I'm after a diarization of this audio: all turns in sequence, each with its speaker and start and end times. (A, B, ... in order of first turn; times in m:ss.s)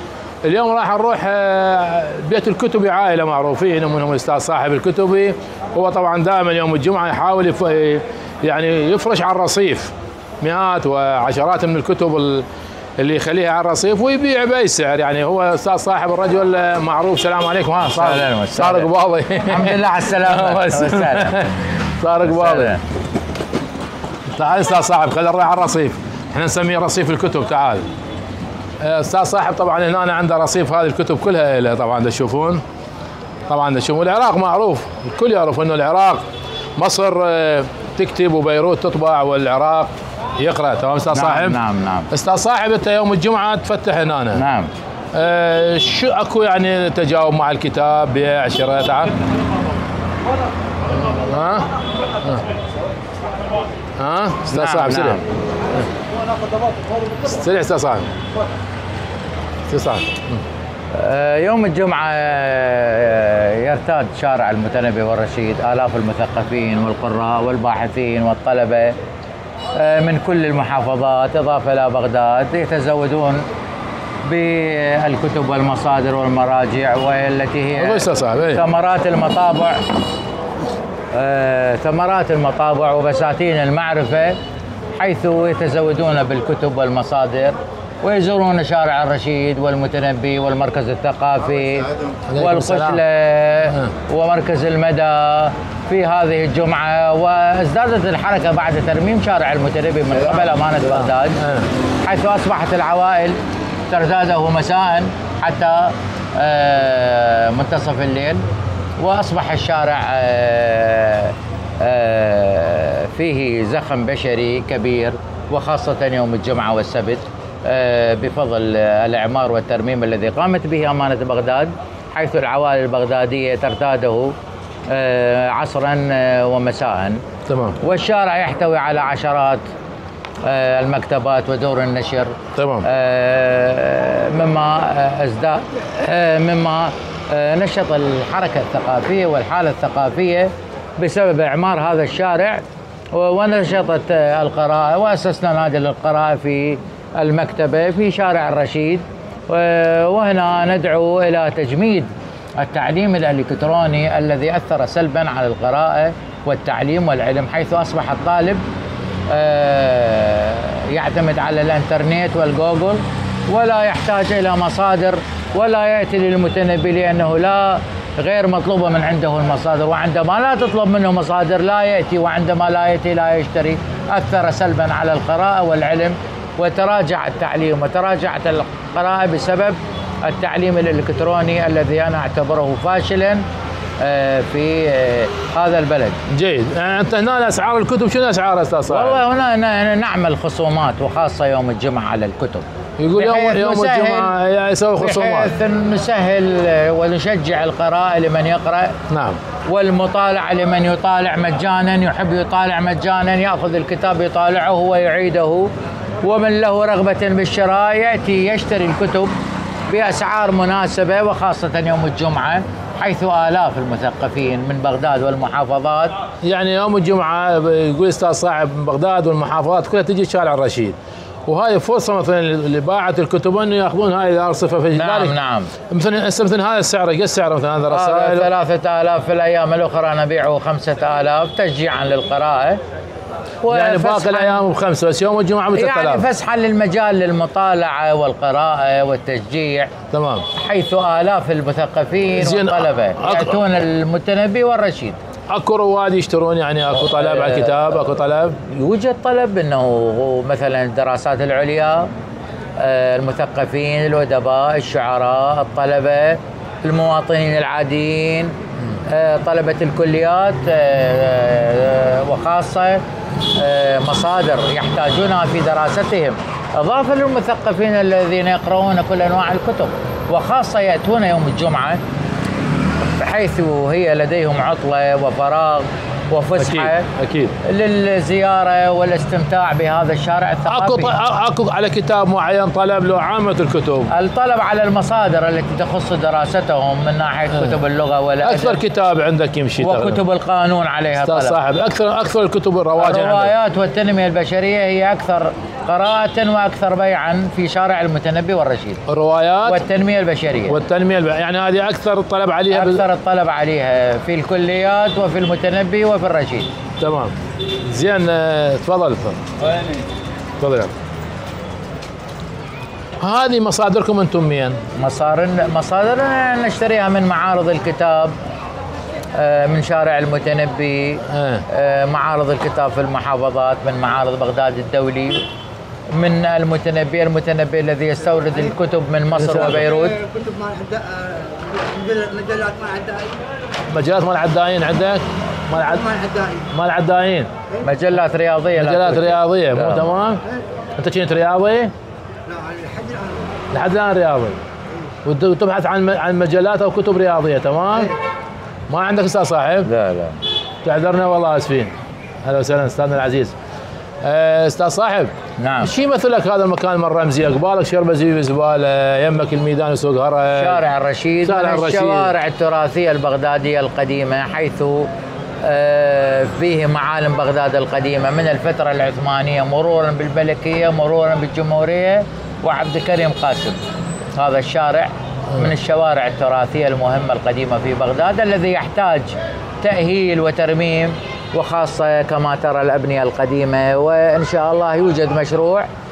0:00.4-0:12.4 A
0:13.0-0:22.8 A
0:18.0-0:18.9 B
0:19.5-0:21.4 B
0:22.2-0:22.8 B
0:24.3-0:27.9 A
0:28.8-0:32.6 A
0:33.5-0:36.2 A
0:36.8-0:44.4 A
0:41.1-0:42.1 B
0:44.4-0:44.7 B
0:45.1-0:49.1 A
0:50.9-0:51.7 A
0:54.0-0:55.2 A
0:54.5-0:55.3 B
0:57.2-0:58.1 A
0:59.7-1:00.4 A
1:00.9-1:09.0 B
1:09.7-1:13.5 B
1:14.2-1:19.9 B
1:17.7-1:18.6 A
1:21.1-1:24.4 B
1:25.0-1:41.4 B
1:32.3-1:33.0 A
1:41.4-1:41.7 A
1:42.0-1:43.4 B
1:43.9-1:48.4 B
1:49.0-2:04.4 B
2:04.9-2:07.2 B
2:07.5-2:07.8 A
2:07.8-2:09.6 B
2:10.4-2:38.6 B
2:12.6-2:12.9 A
2:39.3-3:03.4 B
3:04.0-3:06.2 B
3:06.3-3:09.2 A
3:08.9-3:14.4 B
3:13.0-3:15.5 A
3:15.0-3:18.9 B
3:19.1-3:19.4 A
3:19.7-3:25.7 B
3:26.2-3:29.3 B
3:29.9-3:36.2 B
3:36.4-3:45.4 A
3:45.0-3:45.7 B
3:45.9-3:48.5 A
3:47.9-3:52.8 B
3:53.6-3:54.7 B
3:53.7-3:56.2 A
3:55.7-3:59.9 B
4:00.1-4:00.5 A
4:00.6-4:05.2 B
4:02.4-4:03.6 A
4:05.5-4:08.6 A
4:07.0-4:07.8 B
4:08.6-4:12.1 B
4:12.8-4:18.6 B
4:19.1-4:23.0 B
4:23.6-4:32.0 B
4:33.0-4:37.1 B
4:36.6-4:37.6 A
4:37.6-4:41.2 B
4:40.7-4:44.1 A
4:44.1-4:48.8 B
4:48.4-4:50.2 A
4:49.8-4:51.6 B
4:51.2-4:53.5 A
4:53.0-4:59.0 B
4:59.1-4:59.8 A
4:59.6-5:00.8 B
5:00.7-5:03.0 A
5:02.7-5:06.7 B
5:07.0-5:07.3 A
5:07.8-5:09.4 A
5:10.6-5:10.9 A
5:13.2-5:14.8 A
5:15.0-5:18.4 B
5:19.3-5:25.5 B
5:21.3-5:21.6 A
5:26.1-5:30.2 B
5:29.3-5:29.9 A
5:30.2-5:33.4 C
5:33.9-5:37.5 A
5:37.8-5:40.2 B
5:38.8-5:40.4 A
5:41.0-5:41.9 A
5:42.5-5:43.4 C
5:43.7-5:44.6 A
5:45.2-5:48.2 A
5:48.9-5:49.9 A
5:49.8-5:50.4 B
5:50.8-5:53.6 A
5:54.2-6:00.8 A
5:55.6-5:55.9 B
6:00.5-6:05.1 B
6:01.4-6:02.3 A
6:05.6-6:13.8 B
6:14.4-6:25.9 B